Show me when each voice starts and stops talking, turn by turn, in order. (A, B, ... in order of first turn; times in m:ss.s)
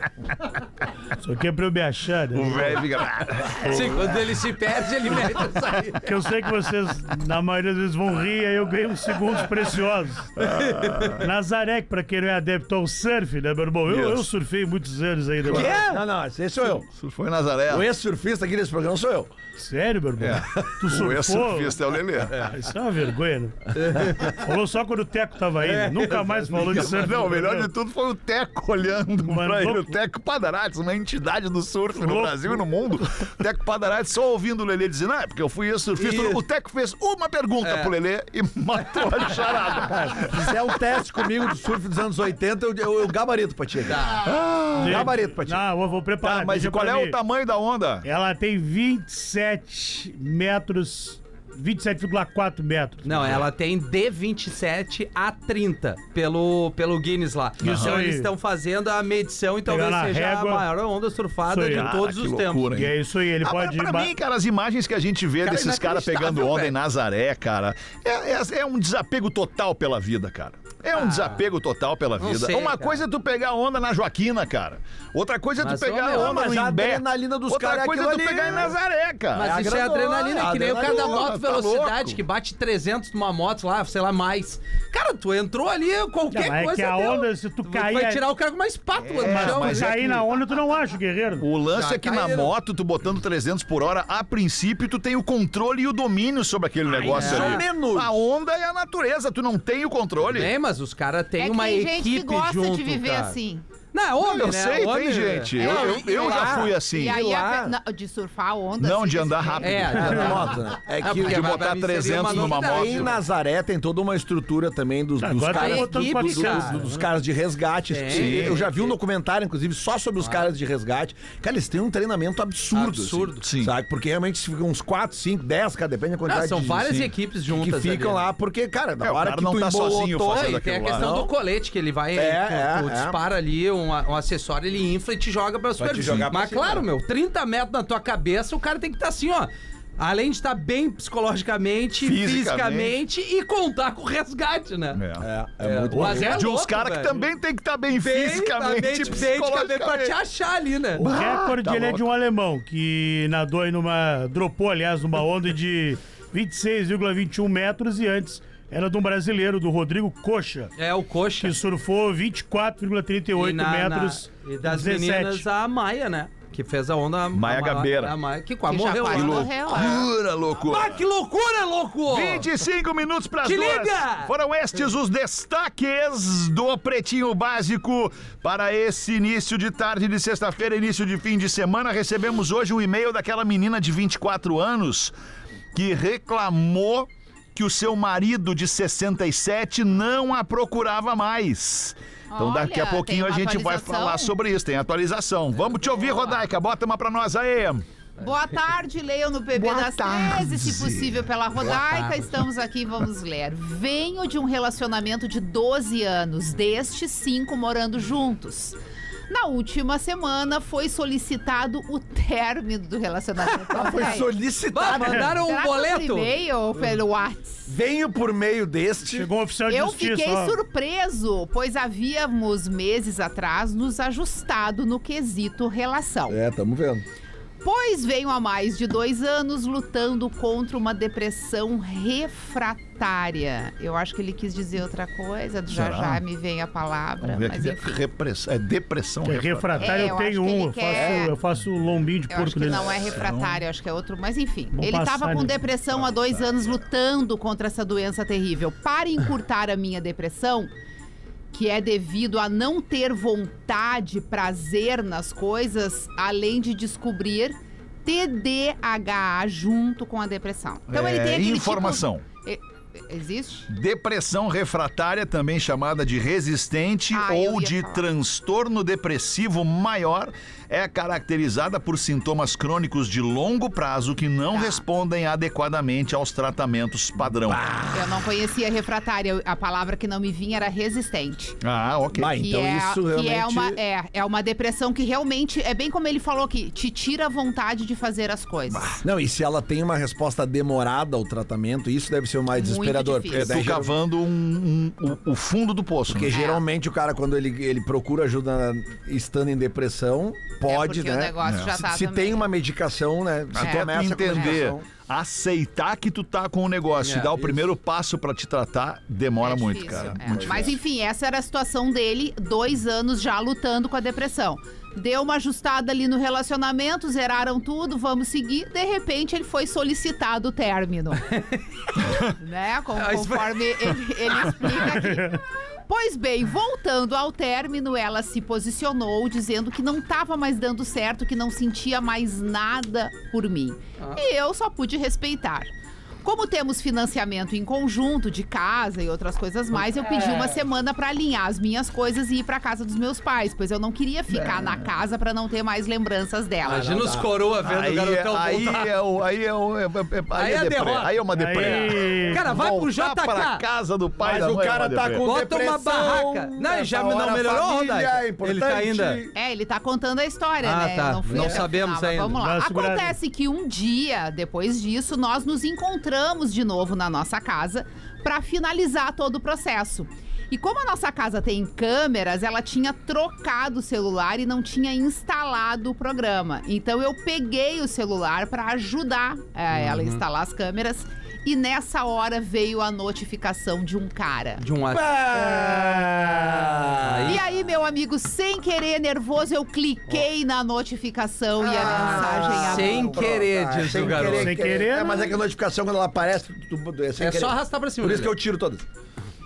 0:01.2-0:02.8 A
0:02.3-0:04.0 B
0:03.6-0:06.1 C
0:06.0-0:10.3 A
0:10.4-0:11.3 B
0:10.5-0:11.1 C
0:11.1-0:15.8 A
0:13.8-0:14.3 B
0:15.4-0:15.8 B
0:15.5-0:16.8 D
0:15.6-0:16.0 C
0:16.8-0:17.8 B
0:17.7-0:19.3 D
0:19.6-0:21.8 A
0:20.2-0:22.5 B
0:22.3-0:27.7 A
0:23.7-0:24.4 C
0:25.6-0:27.1 C
0:26.6-0:40.5 B
0:29.2-0:30.0 A
0:32.0-0:32.6 A
0:36.0-0:36.4 C
0:37.6-0:37.9 C
0:38.9-0:39.5 C
0:39.9-0:44.1 D
0:43.9-0:44.3 C
0:44.2-0:45.1 B
0:44.8-0:47.2 A
0:44.8-0:45.6 D
0:46.2-0:48.0 B
0:48.0-0:53.4 A
0:53.0-1:02.7 C
0:57.6-0:58.0 B
0:57.6-0:58.3 A
0:59.7-1:00.6 A
1:01.5-1:01.9 A
1:01.7-1:19.5 B
1:02.7-1:04.1 A
1:05.4-1:06.7 C
1:10.9-1:11.4 C
1:12.2-1:13.0 C
1:15.6-1:16.4 C
1:16.1-1:18.8 D
1:19.3-1:21.3 D
1:19.3-1:30.0 C
1:20.8-1:22.2 B
1:26.3-1:28.2 A
1:29.0-1:30.2 B
1:29.2-1:31.5 A
1:31.4-1:40.5 B
1:31.7-1:32.5 C
1:36.9-1:37.6 C
1:37.0-1:38.1 D
1:40.2-1:43.4 C
1:41.4-1:43.6 E
1:43.9-1:47.6 C
1:44.2-1:47.2 B
1:45.6-1:47.7 D
1:45.6-1:50.3 E
1:48.8-1:50.4 B
1:49.6-1:53.2 C
1:50.0-2:11.3 D
1:51.1-1:53.1 B
1:55.2-1:57.1 A
1:55.5-1:56.8 C
1:57.9-1:58.9 C
1:58.1-1:58.6 B
2:00.2-2:00.5 C
2:02.7-2:03.4 C
2:03.4-2:03.7 B
2:06.3-2:08.2 C
2:09.0-2:11.1 B
2:10.3-2:25.0 C
2:12.1-2:13.2 D
2:15.8-2:16.8 D
2:22.0-2:23.0 B
2:24.9-2:25.3 B
2:25.2-2:26.4 D
2:25.6-2:27.3 C
2:26.0-2:30.1 B
2:27.9-2:31.0 C
2:31.0-2:32.0 B
2:31.0-2:40.7 A
2:40.8-2:41.5 C
2:41.4-2:45.4 A
2:43.4-2:50.0 C
2:47.3-2:48.2 B
2:48.7-2:50.0 E
2:49.1-2:51.0 B
2:50.6-2:52.5 C
2:52.1-3:05.1 B
2:53.4-2:54.3 C
3:05.7-3:17.8 B
3:12.3-3:14.3 E
3:16.1-3:16.4 C
3:18.2-3:28.8 E
3:19.6-3:21.2 B
3:21.8-3:22.2 C
3:29.3-3:34.3 E
3:33.4-3:34.2 C
3:33.7-3:35.4 D
3:34.7-3:36.3 C
3:35.4-3:37.7 E
3:37.7-3:39.3 D
3:39.0-3:40.6 A
3:39.7-3:46.4 E
3:46.3-3:47.0 D
3:47.6-3:58.0 E
3:55.7-3:56.2 B
3:57.2-4:00.2 B
3:59.2-4:02.9 A
3:59.8-4:01.3 E
4:00.9-4:01.2 D
4:02.3-4:10.7 E
4:03.0-4:03.6 B
4:04.7-4:05.6 A
4:11.5-4:23.7 E
4:20.9-4:22.3 B
4:23.7-4:37.7 B
4:27.1-4:28.0 E
4:34.5-4:34.8 E
4:37.4-4:38.1 D
4:37.9-4:41.6 E
4:41.6-4:42.4 B
4:42.1-4:43.8 D
4:42.3-4:49.0 E
4:48.9-4:54.0 D
4:52.5-4:53.7 E
4:53.3-4:56.3 B
4:56.1-5:04.8 D
4:56.3-4:56.6 E
5:00.6-5:02.5 E
5:01.4-5:01.7 B
5:03.5-5:10.7 B
5:03.6-5:04.6 E
5:07.0-5:07.3 C
5:09.4-5:21.4 E
5:09.9-5:10.7 D
5:21.3-5:21.6 C
5:22.2-5:35.7 E
5:23.0-5:24.9 C
5:25.1-5:25.4 A
5:36.2-5:47.1 E
5:39.9-5:40.6 C
5:44.3-5:44.8 B
5:46.6-5:48.9 C
5:46.9-5:47.2 D
5:47.6-5:55.2 B
5:50.3-5:53.6 C
5:51.3-5:52.4 A
5:54.2-5:59.3 D
5:55.2-5:59.2 C
5:59.3-6:24.6 E
6:00.6-6:02.4 C
6:01.3-6:01.7 D
6:02.4-6:03.1 A
6:19.7-6:20.2 C
6:24.6-6:25.5 C
6:24.9-6:27.4 D
6:27.0-6:27.4 C
6:27.2-6:33.3 E
6:31.6-6:38.8 D
6:31.8-6:34.6 C
6:34.4-6:35.3 A
6:37.2-6:38.3 C